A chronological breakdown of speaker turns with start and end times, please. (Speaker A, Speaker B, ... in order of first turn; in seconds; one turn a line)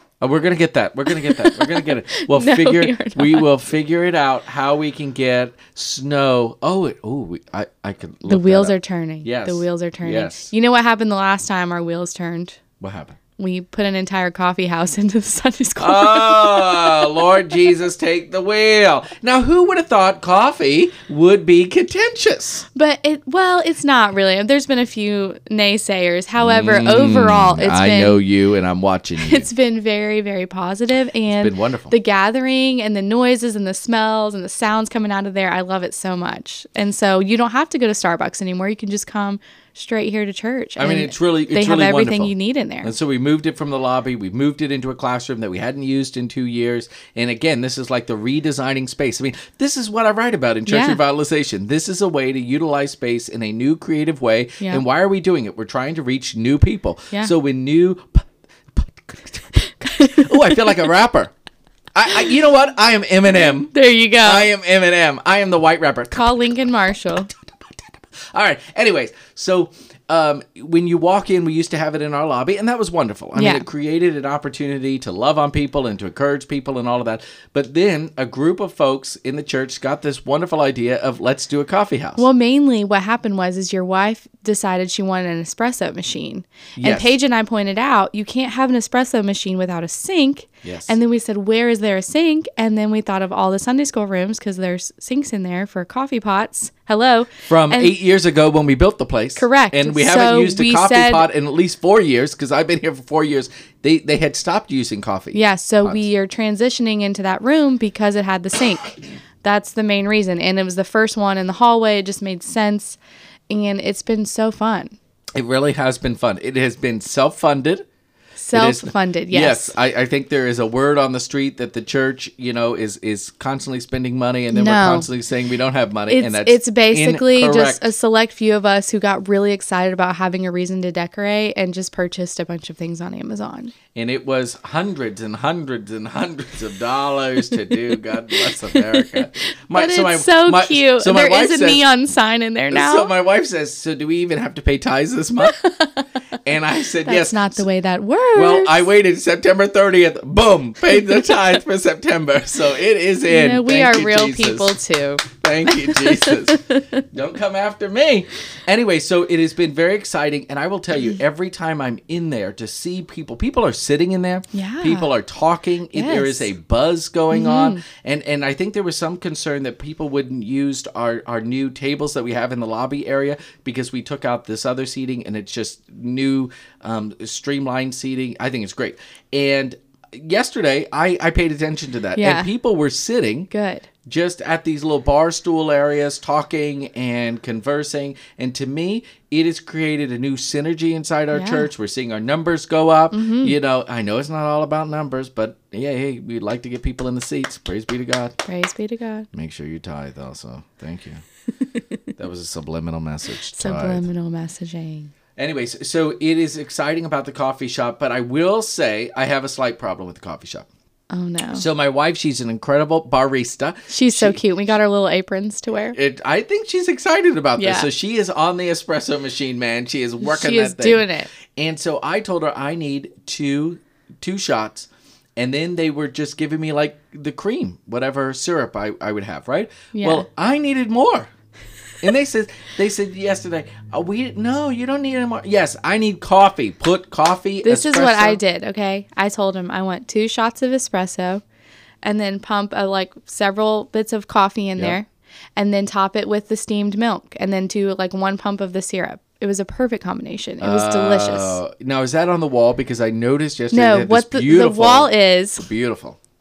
Speaker A: 0.2-10.5
Speaker B: 1.1-3.5
Speaker B: 8.2-12.6
Speaker A: 12.8-13.2
Speaker B: 13.4-17.1
Speaker A: 15.8-22.6
Speaker B: 22.7-28.2
Speaker A: 26.4-29.5
Speaker B: 29.2-42.9
Speaker A: 31.3-31.9
Speaker A: 40.8-61.3
Speaker B: 50.7-51.0
Speaker B: 59.7-60.6
Speaker A: 61.9-66.3
Speaker B: 63.7-64.5
Speaker B: 66.1-67.3
Speaker A: 68.3-82.2
Speaker B: 73.3-73.6
Speaker B: 82.2-97.9
Speaker A: 86.8-87.2
Speaker A: 90.6-90.9
Speaker A: 97.5-106.0
Speaker B: 99.4-101.3
Speaker B: 105.3-113.0
Speaker B: 113.5-115.0
Speaker A: 115.3-117.8
Speaker B: 118.4-119.8
Speaker A: 118.5-127.8
Speaker B: 124.5-125.1
Speaker B: 126.1-133.7
Speaker A: 133.9-141.8
Speaker B: 138.4-143.1
Speaker A: 142.7-145.6
Speaker B: 145.5-145.9
Speaker A: 146.4-147.6
Speaker B: 147.0-148.9
Speaker A: 148.3-154.7
Speaker B: 153.3-156.8
Speaker A: 155.4-183.5
Speaker B: 164.5-165.1
Speaker B: 165.9-166.5
Speaker B: 167.3-167.8
Speaker B: 182.2-182.5
Speaker B: 183.5-183.9
Speaker A: 184.1-198.3
Speaker B: 191.3-191.7
Speaker B: 193.1-193.6
Speaker B: 198.4-199.3
Speaker A: 199.3-201.2
Speaker A: 202.2-204.0
Speaker B: 203.5-205.1
Speaker A: 205.3-210.7
Speaker B: 211.1-211.6
Speaker A: 211.5-214.4
Speaker B: 213.9-216.0
Speaker A: 215.9-231.3
Speaker B: 217.6-217.9
Speaker B: 220.2-221.3
Speaker B: 229.9-230.2
Speaker A: 232.0-238.4
Speaker B: 237.6-241.4
Speaker B: 242.0-251.6
Speaker A: 250.6-256.2
Speaker B: 253.7-255.7